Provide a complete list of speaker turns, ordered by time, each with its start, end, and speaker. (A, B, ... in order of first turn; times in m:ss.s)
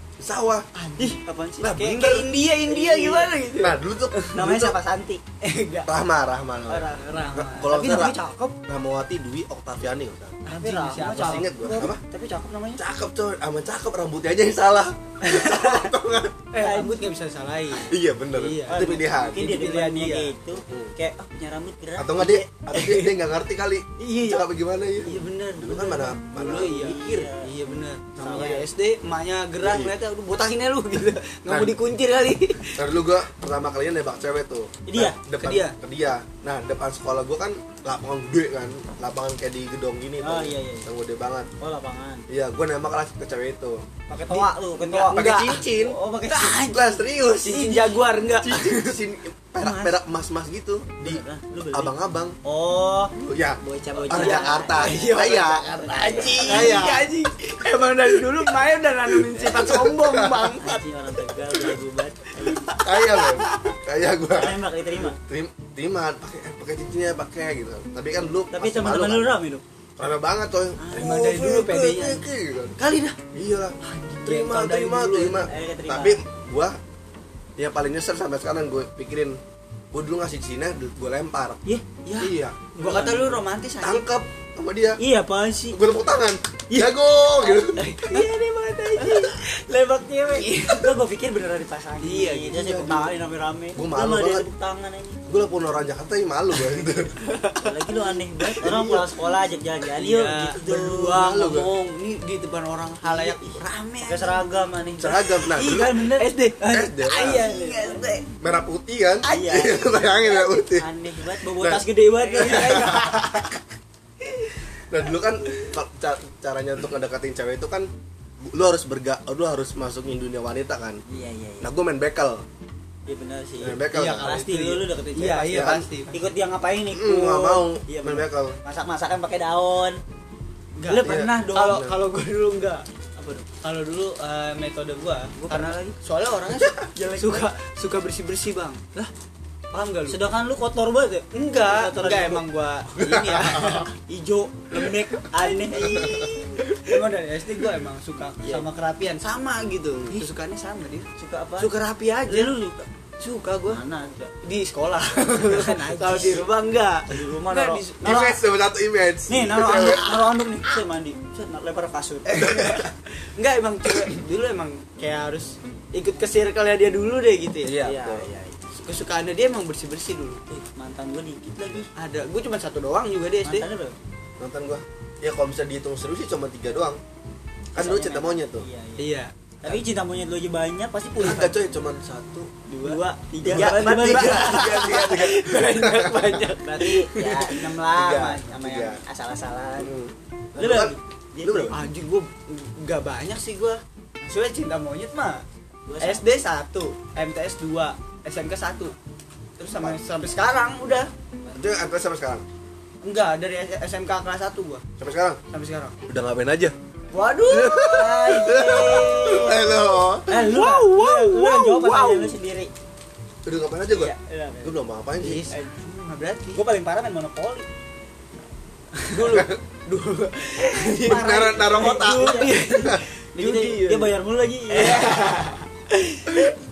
0:00.2-0:00.7 A
0:00.7-0:04.4 B
0:01.0-0:03.3 C
0:01.6-0:02.2 A
0:03.6-0:04.8 A
0:04.3-0:05.2 C
0:05.4-0:05.9 B
0:05.8-0:10.4 A
0:06.7-0:08.5 C
0:06.9-0:08.0 B
0:10.4-0:11.5 B
0:10.4-0:12.8 C
0:11.2-0:12.0 A
0:12.8-0:16.4 A
0:15.3-0:15.7 C
0:16.5-0:20.3 B
0:16.6-0:17.0 C
0:17.8-0:19.4 A
0:18.7-0:22.4 C
0:20.7-0:20.9 A
0:22.0-0:26.9 A
0:22.6-0:23.1 B
0:24.0-0:24.4 B
0:25.0-0:32.8 B
0:26.5-0:27.5 C
0:28.2-0:28.7 C
0:29.6-0:29.9 A
0:31.5-0:31.8 A
0:32.8-0:41.5 A
0:34.8-0:35.2 C
0:35.3-0:35.8 B
0:40.2-0:40.9 C
0:41.6-0:42.2 C
0:42.3-0:43.8 A
0:44.1-0:47.5 C
0:44.3-0:45.7 B
0:45.1-0:46.0 A
0:46.3-0:46.8 B
0:46.6-0:47.8 A
0:47.4-0:48.9 B
0:48.4-0:52.4 A
0:49.6-0:50.0 C
0:51.0-0:56.9 C
0:53.2-0:57.1 A
0:54.0-1:00.8 B
0:59.2-1:00.6 A
1:00.6-1:02.7 C
1:02.4-1:03.7 B
1:02.7-1:09.4 A
1:04.3-1:05.2 C
1:08.5-1:09.6 C
1:10.0-1:12.8 A
1:10.8-1:11.2 C
1:10.9-1:12.2 B
1:12.8-1:13.2 B
1:13.3-1:16.8 A
1:13.8-1:15.5 B
1:15.5-1:16.2 C
1:17.6-1:19.4 A
1:19.9-1:21.6 A
1:22.0-1:24.0 B
1:22.2-1:22.6 A
1:22.8-1:23.4 C
1:23.8-1:25.0 A
1:25.0-1:25.8 C
1:25.7-1:27.8 A
1:26.7-1:35.2 C
1:27.7-1:29.4 B
1:30.3-1:31.0 B
1:32.0-1:33.0 B
1:32.5-1:33.1 A
1:33.7-1:34.5 A
1:35.3-1:37.1 A
1:36.7-1:37.6 B
1:37.6-1:41.5 C
1:38.6-1:39.1 A
1:40.0-1:44.4 B
1:41.3-1:41.7 A
1:43.0-1:48.1 C
1:45.0-1:45.9 A
1:45.2-1:48.3 B
1:46.7-1:47.4 A
1:48.4-1:53.3 A
1:49.3-1:49.6 B
1:49.3-1:53.3 C
1:52.2-1:53.5 B
1:54.2-1:54.6 B
1:54.9-1:57.9 A
1:55.4-1:55.7 B
1:58.4-2:01.0 A
2:01.1-2:01.7 C
2:01.6-2:02.4 A
2:03.1-2:10.0 C
2:03.6-2:04.3 A
2:03.9-2:06.2 B
2:05.5-2:05.8 A
2:06.9-2:08.6 A
2:10.8-2:12.8 B
2:10.9-2:11.8 C
2:11.0-2:11.9 A
2:13.2-2:13.4 C
2:13.4-2:19.1 B
2:15.4-2:16.0 C
2:16.9-2:17.5 C
2:19.7-2:20.2 B
2:20.1-2:22.4 C
2:21.3-2:23.9 B
2:22.9-2:23.9 A
2:24.0-2:26.3 C
2:25.4-2:31.1 B
2:25.8-2:26.9 A
2:30.0-2:30.3 A
2:31.2-2:31.7 C
2:31.6-2:32.6 B
2:32.3-2:32.8 C
2:33.2-2:33.8 B
2:33.6-2:34.3 C
2:34.4-2:38.3 B
2:35.3-2:36.4 C
2:37.1-2:38.4 C
2:38.0-2:40.1 A
2:39.3-2:42.4 C
2:39.6-2:40.2 B
2:42.2-2:47.8 B
2:42.4-2:42.9 A
2:47.6-2:48.3 A
2:47.8-2:48.6 C
2:48.7-2:50.4 B
2:50.5-2:51.9 C
2:52.0-2:53.6 B
2:53.4-2:54.0 C
2:54.4-2:57.0 A
2:57.7-2:58.6 A
2:57.7-3:01.6 C
2:59.0-2:59.3 B
3:01.2-3:06.4 A
3:02.8-3:07.7 B
3:02.8-3:04.6 C
3:06.6-3:09.9 C
3:07.9-3:09.0 A
3:09.8-3:11.8 A
3:10.6-3:11.8 C
3:11.7-3:15.4 B
3:15.9-3:16.3 C
3:16.0-3:18.9 B
3:19.6-3:21.1 B
3:21.5-3:22.4 A
3:23.0-3:24.8 B
3:25.0-3:25.4 A
3:25.5-3:25.9 B
3:26.1-3:26.7 A
3:27.1-3:29.7 B
3:27.4-3:30.2 A
3:27.9-3:29.7 C
3:30.3-3:32.4 B
3:30.3-3:32.7 C
3:33.4-3:35.5 A
3:33.9-3:34.8 C
3:35.2-3:36.6 B
3:36.5-3:37.7 C
3:39.1-3:44.2 B
3:39.3-3:39.6 A
3:40.6-3:45.4 C
3:41.0-3:43.0 A
3:44.7-3:46.5 B